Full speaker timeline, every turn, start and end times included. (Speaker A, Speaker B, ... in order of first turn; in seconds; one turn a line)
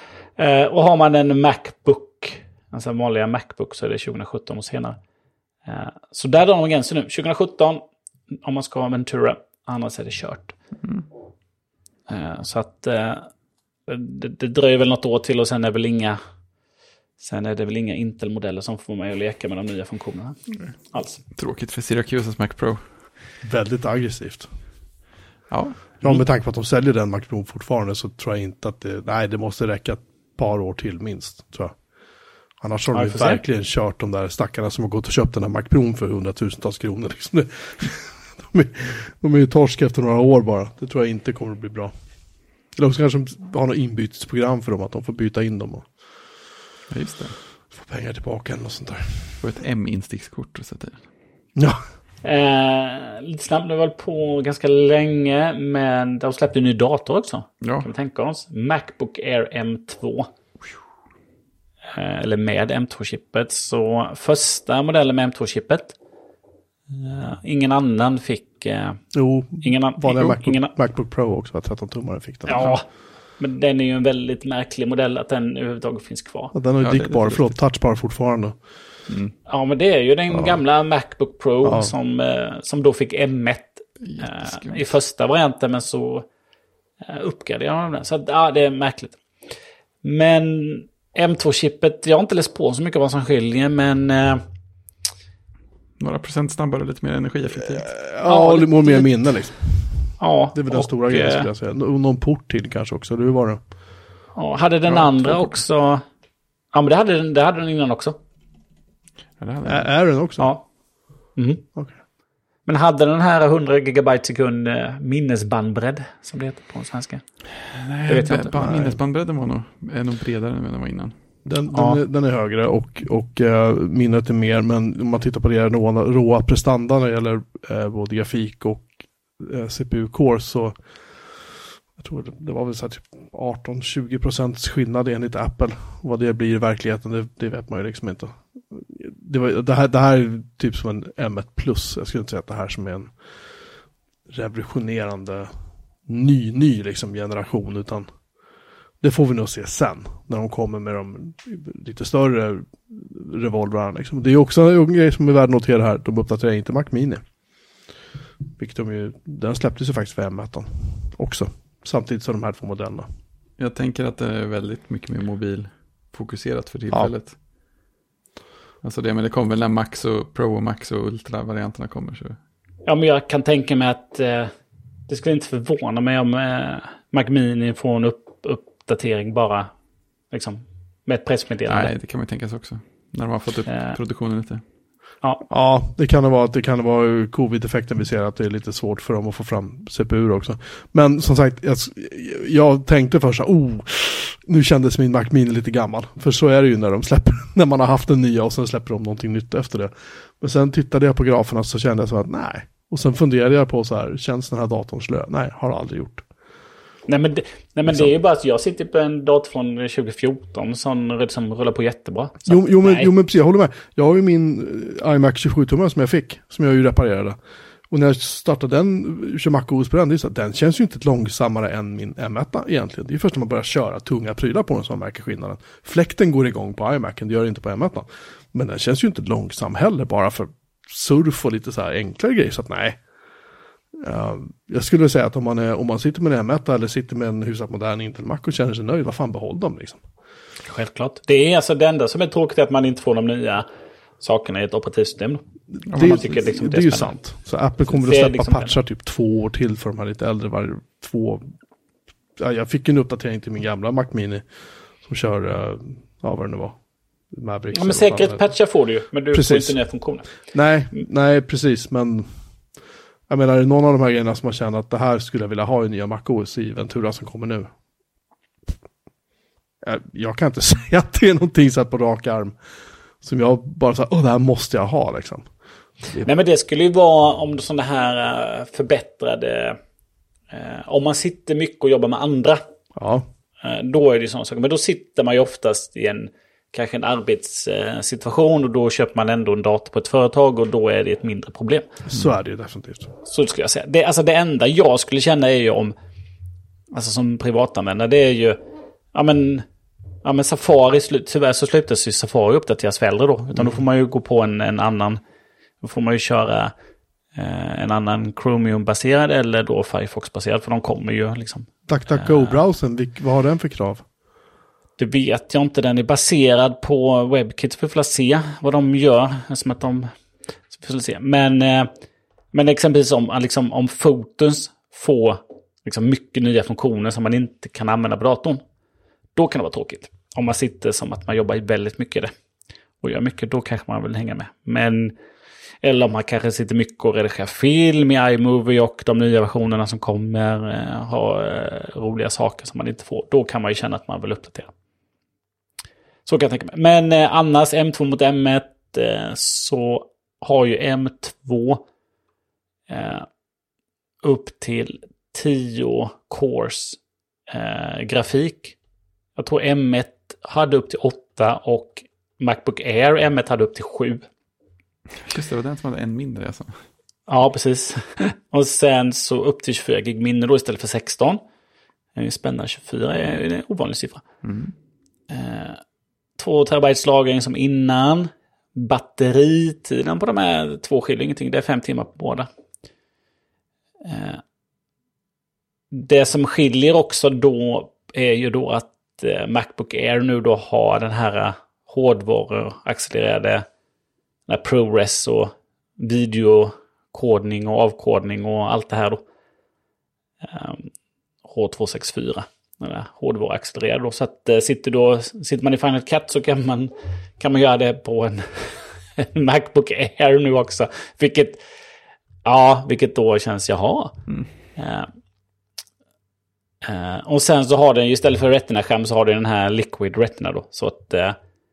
Speaker A: 0.4-5.0
Speaker A: 5.7-10.6
Speaker A: 12.1-13.3
Speaker A: 13.9-16.2
Speaker A: 17.2-21.2
Speaker B: 21.3-23.0
Speaker C: 23.4-24.5
Speaker B: 25.5-26.2
Speaker C: 26.0-31.8
Speaker C: 32.6-41.9
Speaker A: 32.9-33.4
Speaker C: 42.7-46.3
Speaker B: 46.9-47.4
Speaker C: 47.7-49.4
Speaker B: 49.4-51.0
Speaker C: 51.6-51.8
Speaker A: 52.2-60.3
Speaker B: 57.6-57.9
Speaker A: 61.9-66.0
Speaker A: 66.9-69.0
Speaker C: 69.1-72.7
Speaker A: 69.6-70.7
Speaker A: 72.5-76.5
Speaker B: 72.5-72.8
Speaker C: 76.5-78.6
Speaker B: 76.8-77.5
Speaker B: 79.1-79.3
Speaker A: 79.5-86.3
Speaker C: 80.3-80.6
Speaker C: 81.6-81.9
Speaker B: 84.0-84.8
Speaker A: 87.0-89.2
Speaker A: 90.0-94.4
Speaker B: 96.0-97.9
Speaker C: 97.7-103.6
Speaker A: 98.2-99.2
Speaker A: 100.2-101.5
Speaker A: 104.3-106.0
Speaker B: 104.9-105.6
Speaker A: 106.7-108.2
Speaker B: 109.4-109.9
Speaker C: 109.7-110.5
Speaker A: 110.4-111.7
Speaker A: 112.7-117.2
Speaker B: 117.7-121.1
Speaker A: 118.1-118.6
Speaker C: 118.5-119.0
Speaker C: 121.5-131.4
Speaker A: 121.7-122.0
Speaker C: 132.0-143.2
Speaker C: 144.3-148.1
Speaker C: 149.0-157.2
Speaker C: 158.6-163.1
Speaker B: 163.6-167.4
Speaker B: 168.8-172.4
Speaker A: 172.8-174.5
Speaker A: 175.1-179.7
Speaker A: 180.3-181.9
Speaker B: 181.7-184.6
Speaker A: 183.7-184.0
Speaker C: 185.5-206.3
Speaker A: 207.1-213.1
Speaker C: 212.5-217.4
Speaker C: 217.9-233.0
Speaker C: 234.0-240.0
Speaker A: 240.6-243.7
Speaker A: 244.2-247.2
Speaker C: 245.7-251.5
Speaker B: 245.9-246.3
Speaker A: 247.9-248.8
Speaker C: 252.4-258.5
Speaker A: 257.7-260.5
Speaker C: 259.3-259.8
Speaker C: 260.3-262.6
Speaker C: 263.3-267.7
Speaker C: 269.8-272.6
Speaker C: 273.2-275.5
Speaker C: 276.0-276.3
Speaker A: 276.2-279.8
Speaker A: 280.5-282.6
Speaker C: 283.0-283.3
Speaker A: 283.6-291.9
Speaker C: 292.1-293.1
Speaker A: 293.3-295.9
Speaker A: 296.9-298.6
Speaker A: 299.1-299.7
Speaker A: 300.2-305.2
Speaker C: 303.6-303.8
Speaker A: 305.8-306.7
Speaker A: 307.4-312.6
Speaker C: 311.9-314.1
Speaker A: 315.0-320.1
Speaker A: 320.7-321.9
Speaker A: 322.5-328.6
Speaker A: 329.4-332.3
Speaker A: 333.0-335.1
Speaker A: 335.8-344.7
Speaker A: 346.3-351.8
Speaker A: 352.9-353.3
Speaker A: 354.2-358.8
Speaker A: 359.4-364.3
Speaker B: 365.2-366.8
Speaker A: 367.3-371.4
Speaker A: 372.1-374.2
Speaker B: 374.4-374.7
Speaker A: 375.3-375.8
Speaker A: 376.4-382.5
Speaker A: 384.0-384.4
Speaker A: 385.9-393.7
Speaker A: 394.5-399.2
Speaker A: 400.4-400.9
Speaker A: 401.5-411.6
Speaker A: 412.4-414.2
Speaker A: 414.8-415.1
Speaker A: 416.8-421.4